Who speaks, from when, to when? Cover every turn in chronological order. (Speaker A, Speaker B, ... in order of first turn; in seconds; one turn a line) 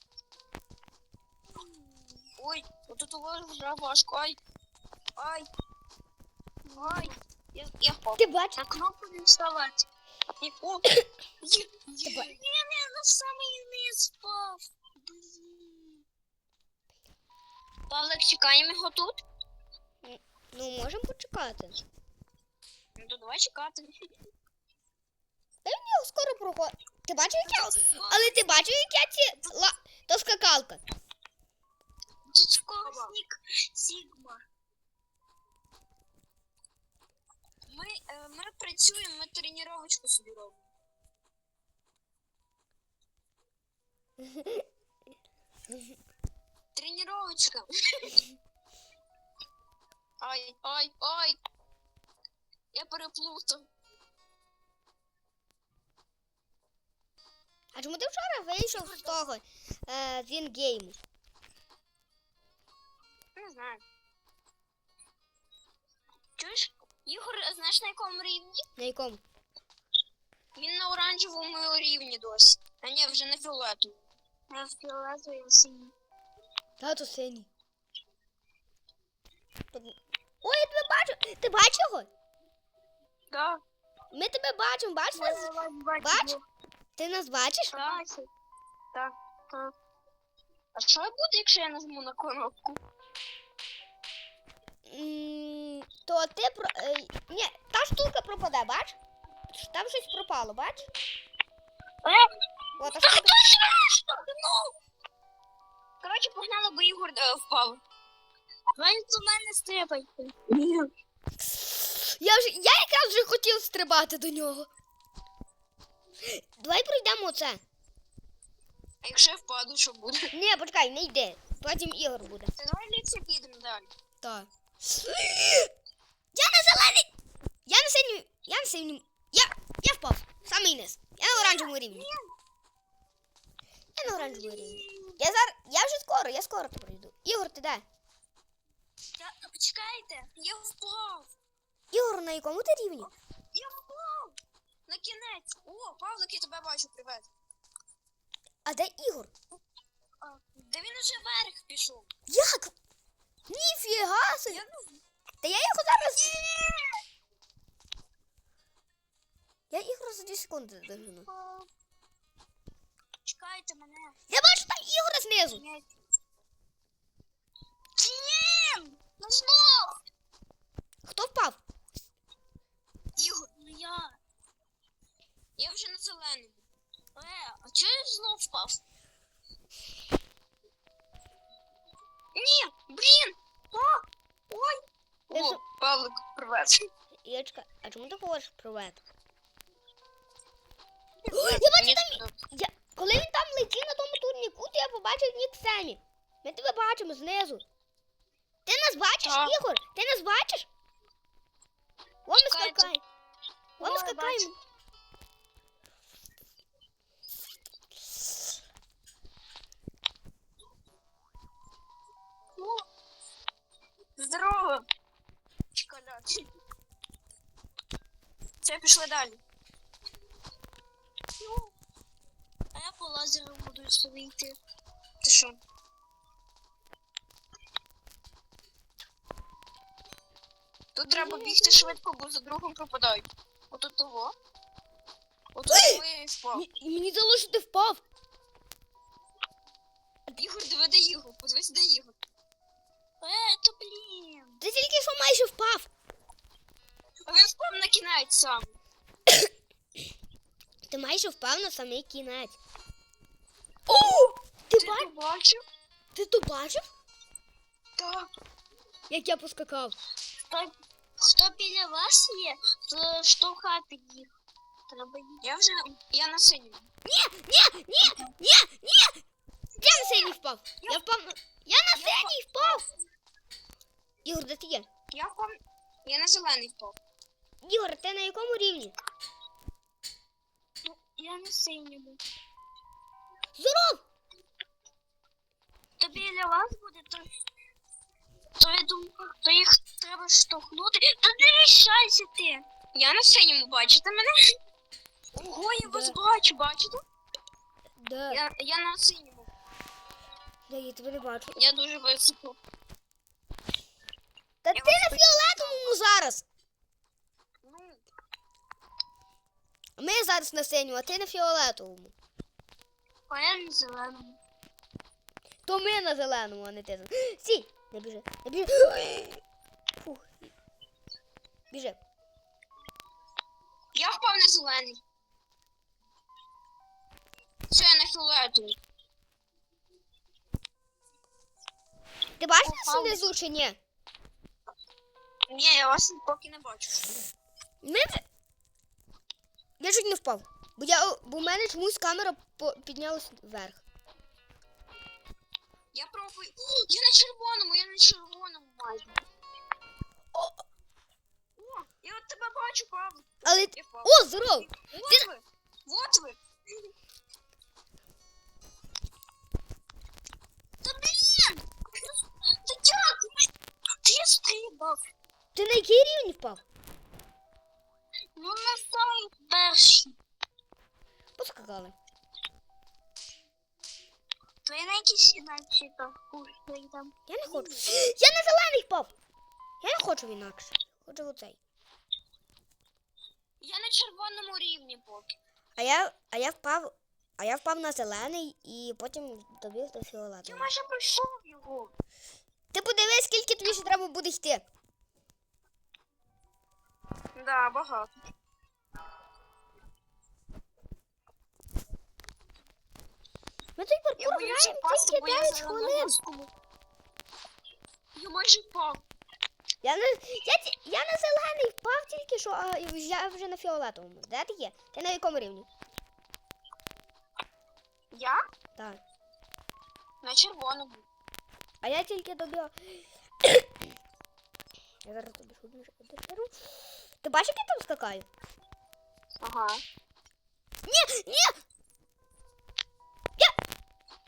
Speaker A: 1.6-2.2
Speaker B: 2.4-4.4
Speaker B: 5.2-5.5
Speaker A: 6.6-7.1
Speaker B: 6.8-8.2
Speaker C: 8.2-8.6
Speaker A: 8.6-9.8
Speaker B: 10.4-12.4
Speaker A: 12.0-16.0
Speaker B: 17.9-19.2
Speaker C: 20.0-21.8
Speaker B: 22.9-24.1
Speaker C: 25.6-30.8
Speaker B: 27.4-28.7
Speaker A: 32.3-34.4
Speaker B: 32.8-33.1
Speaker B: 37.7-40.7
Speaker C: 44.4-44.6
Speaker B: 46.7-48.2
Speaker B: 50.2-51.4
Speaker B: 52.7-53.7
Speaker C: 57.7-61.0
Speaker A: 58.7-59.2
Speaker B: 63.4-63.8
Speaker A: 66.4-66.7
Speaker B: 67.0-68.6
Speaker C: 68.8-69.2
Speaker B: 70.5-74.0
Speaker A: 74.5-75.9
Speaker C: 76.8-77.5
Speaker C: 79.7-82.1
Speaker B: 83.3-83.6
Speaker C: 84.1-86.3
Speaker A: 85.1-86.4
Speaker C: 87.0-87.7
Speaker A: 87.7-88.3
Speaker B: 87.7-88.0
Speaker B: 90.7-92.8
Speaker C: 94.9-99.0
Speaker C: 99.5-100.9
Speaker C: 102.8-103.3
Speaker A: 102.8-104.2
Speaker B: 104.3-104.6
Speaker B: 106.0-107.8
Speaker A: 108.8-110.3
Speaker B: 110.5-110.9
Speaker C: 111.4-114.7
Speaker C: 116.2-117.6
Speaker B: 119.0-120.3
Speaker C: 120.3-122.5
Speaker B: 122.5-123.9
Speaker C: 124.2-125.7
Speaker C: 126.3-127.1
Speaker C: 127.7-132.1
Speaker B: 131.8-132.1
Speaker C: 133.9-137.8
Speaker A: 134.1-135.2
Speaker A: 139.2-140.3
Speaker B: 140.3-141.3
Speaker C: 141.9-143.1
Speaker B: 143.0-147.3
Speaker C: 148.6-149.3
Speaker A: 150.2-150.6
Speaker B: 150.7-152.1
Speaker C: 152.3-152.7
Speaker C: 153.5-154.6
Speaker B: 154.5-155.0
Speaker C: 155.4-156.4
Speaker B: 156.3-156.6
Speaker C: 159.7-161.3
Speaker A: 161.2-161.7
Speaker A: 163.2-164.1
Speaker C: 164.3-165.6
Speaker A: 165.5-165.9
Speaker A: 168.0-169.8
Speaker C: 171.1-171.6
Speaker B: 173.2-173.5
Speaker A: 173.6-174.2
Speaker B: 175.6-176.6
Speaker A: 177.1-178.8
Speaker B: 182.3-183.3
Speaker A: 183.7-184.0
Speaker B: 185.3-186.9
Speaker C: 185.3-185.6
Speaker C: 187.2-189.0
Speaker B: 191.3-192.3
Speaker C: 191.3-197.6
Speaker C: 198.7-200.7
Speaker B: 199.2-199.6
Speaker C: 202.2-203.0
Speaker A: 202.3-203.0
Speaker A: 203.8-204.5
Speaker C: 203.8-204.5
Speaker B: 214.2-214.8
Speaker B: 215.8-216.4
Speaker B: 218.6-219.4
Speaker A: 221.4-221.7
Speaker A: 222.7-224.6
Speaker B: 225.2-225.6
Speaker B: 230.9-234.3
Speaker C: 231.1-231.9
Speaker B: 235.5-236.6
Speaker C: 235.7-236.0
Speaker C: 236.5-238.0
Speaker B: 240.3-242.1
Speaker A: 243.2-244.6
Speaker C: 244.6-245.9
Speaker B: 247.3-248.7
Speaker C: 250.9-252.6
Speaker C: 253.9-255.1
Speaker B: 254.7-255.6
Speaker C: 256.1-256.9
Speaker B: 258.0-258.3
Speaker C: 259.1-259.9
Speaker A: 260.5-264.3
Speaker A: 264.9-265.4
Speaker B: 265.4-266.9
Speaker C: 267.0-269.2
Speaker C: 269.8-272.8
Speaker B: 271.9-272.8
Speaker C: 274.2-274.9
Speaker B: 275.1-276.9
Speaker C: 277.6-278.9
Speaker A: 280.8-282.2
Speaker C: 283.6-284.0
Speaker A: 286.0-287.3
Speaker A: 288.6-292.6
Speaker B: 292.9-294.3
Speaker B: 295.3-297.0
Speaker C: 295.8-296.1
Speaker C: 298.0-298.4
Speaker B: 298.3-299.5
Speaker C: 300.7-301.6
Speaker B: 301.5-302.6
Speaker C: 304.6-306.4
Speaker B: 304.7-306.0
Speaker B: 307.6-308.0
Speaker C: 310.0-312.1
Speaker A: 313.3-314.4
Speaker C: 315.6-319.4
Speaker C: 320.0-320.5
Speaker C: 321.7-322.0
Speaker B: 323.9-325.0
Speaker B: 327.7-328.8
Speaker C: 332.4-333.8
Speaker B: 332.6-333.2
Speaker B: 335.5-337.1
Speaker C: 337.8-338.2
Speaker C: 339.8-343.8
Speaker B: 345.9-349.2
Speaker B: 351.6-356.4
Speaker C: 353.4-355.2
Speaker A: 360.8-361.6
Speaker A: 364.0-365.0
Speaker C: 365.5-366.6
Speaker A: 368.3-370.1
Speaker C: 371.4-371.9
Speaker A: 374.6-377.1
Speaker C: 377.3-379.1
Speaker B: 377.4-377.9
Speaker C: 379.8-381.6
Speaker B: 383.6-385.4
Speaker C: 385.8-390.7
Speaker B: 390.4-391.9
Speaker C: 392.7-394.6
Speaker A: 393.6-393.9
Speaker B: 397.3-398.1
Speaker C: 403.8-406.1
Speaker B: 404.2-406.5
Speaker B: 408.1-409.0
Speaker C: 409.8-415.7
Speaker B: 418.1-418.4
Speaker C: 418.8-419.0
Speaker B: 420.2-421.1
Speaker C: 421.8-423.7
Speaker C: 425.0-428.3
Speaker B: 429.4-429.8
Speaker C: 430.9-431.6